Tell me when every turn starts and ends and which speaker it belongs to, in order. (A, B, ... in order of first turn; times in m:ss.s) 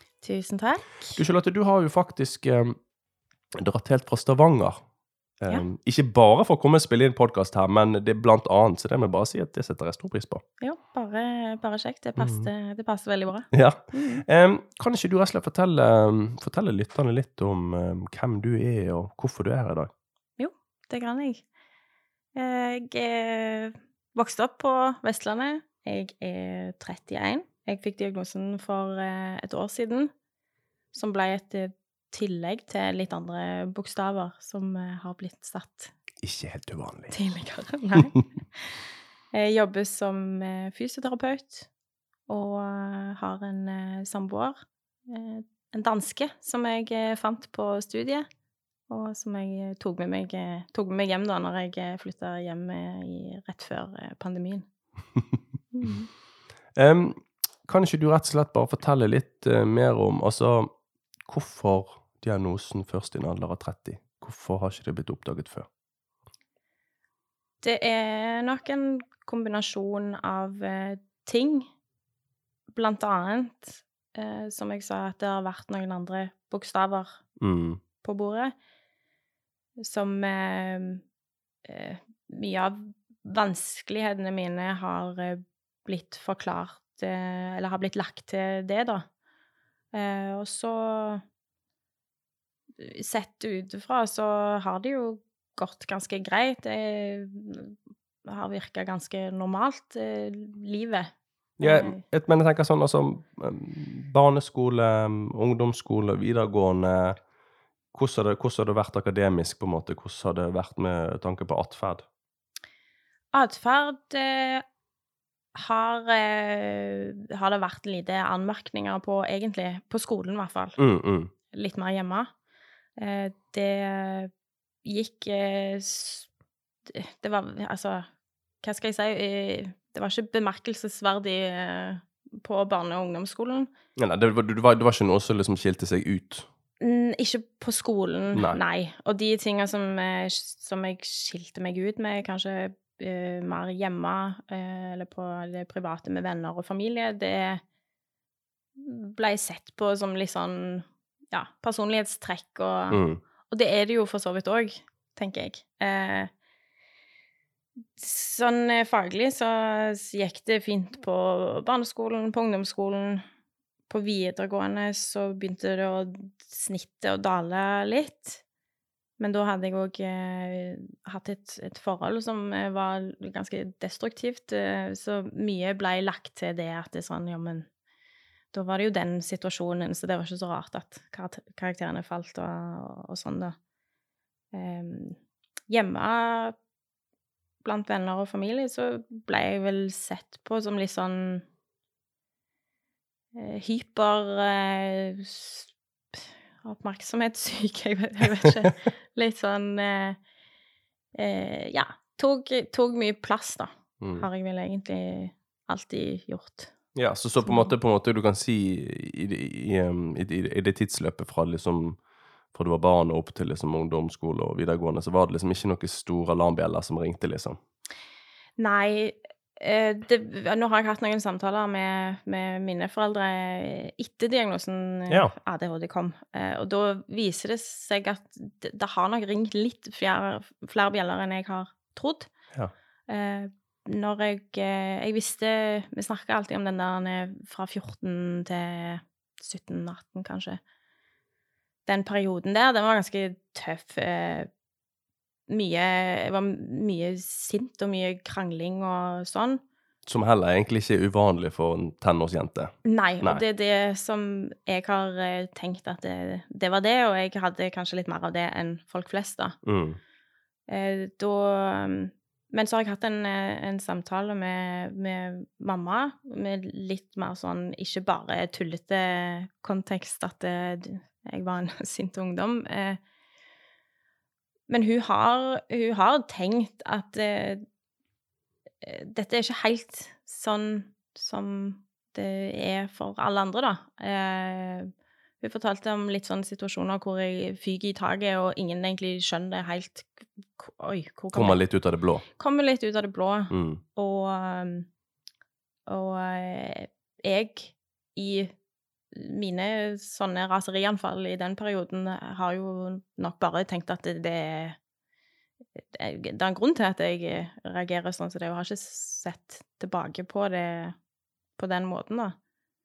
0:00.2-0:01.2 A
0:01.1-0:02.8 B
0:03.5-0:04.8 B
0:05.4-0:10.4 B
0:10.6-0:14.2 A
0:12.2-0:12.5 B
0:13.5-0:19.9 B
0:20.4-0:21.4 A
0:22.3-0:30.1 A
0:30.9-0:35.9 A
0:36.2-0:37.1 B
0:37.1-0:38.8 A
0:39.3-0:41.7 A
0:42.3-0:48.3 A
0:48.9-0:54.7 A
0:55.7-0:56.1 A
0:56.8-1:00.7 B
1:01.2-1:05.7 B
1:07.6-1:11.7 A
1:12.7-1:17.2 A
1:17.4-1:17.8 B
1:18.0-1:18.5 A
1:19.8-1:21.0 A
1:21.6-1:29.0 A
1:29.9-1:31.2 A
1:32.8-1:37.7 A
1:38.2-1:42.0 A
1:41.6-1:47.2 B
1:47.9-1:52.0 B
1:53.3-1:54.6 A
1:55.5-2:00.8 A
2:00.8-2:01.3 B
2:01.5-2:02.3 A
2:03.0-2:04.3 A
2:04.8-2:06.3 A
2:06.8-2:08.0 A
2:08.6-2:13.7 A
2:14.0-2:16.5 B
2:16.8-2:27.6 A
2:18.3-2:18.6 B
2:28.8-2:36.3 A
2:32.9-2:33.2 B
2:38.0-2:43.2 A
2:43.9-2:48.4 A
2:49.2-2:57.7 A
2:58.5-3:03.6 A
3:04.5-3:05.2 A
3:05.7-3:06.6 A
3:07.6-3:11.4 A
3:13.3-3:20.2 A
3:21.1-3:26.7 A
3:24.0-3:24.3 B
3:26.9-3:32.0 B
3:27.4-3:27.7 A
3:32.5-3:37.6 B
3:38.6-3:52.3 A
3:45.1-3:45.3 B
3:53.1-4:00.6 A
4:01.8-4:04.5 A
4:05.5-4:09.6 A
4:10.0-4:13.4 B
4:12.8-4:19.6 A
4:19.6-4:20.0 B
4:20.7-4:33.0 A
4:34.7-4:37.6 A
4:38.8-4:51.6 A
4:51.3-4:52.2 B
4:52.4-4:54.9 A
4:53.5-4:53.8 B
4:55.9-4:58.5 A
4:59.1-5:04.8 A
5:05.8-5:10.9 A
5:11.6-5:12.4 A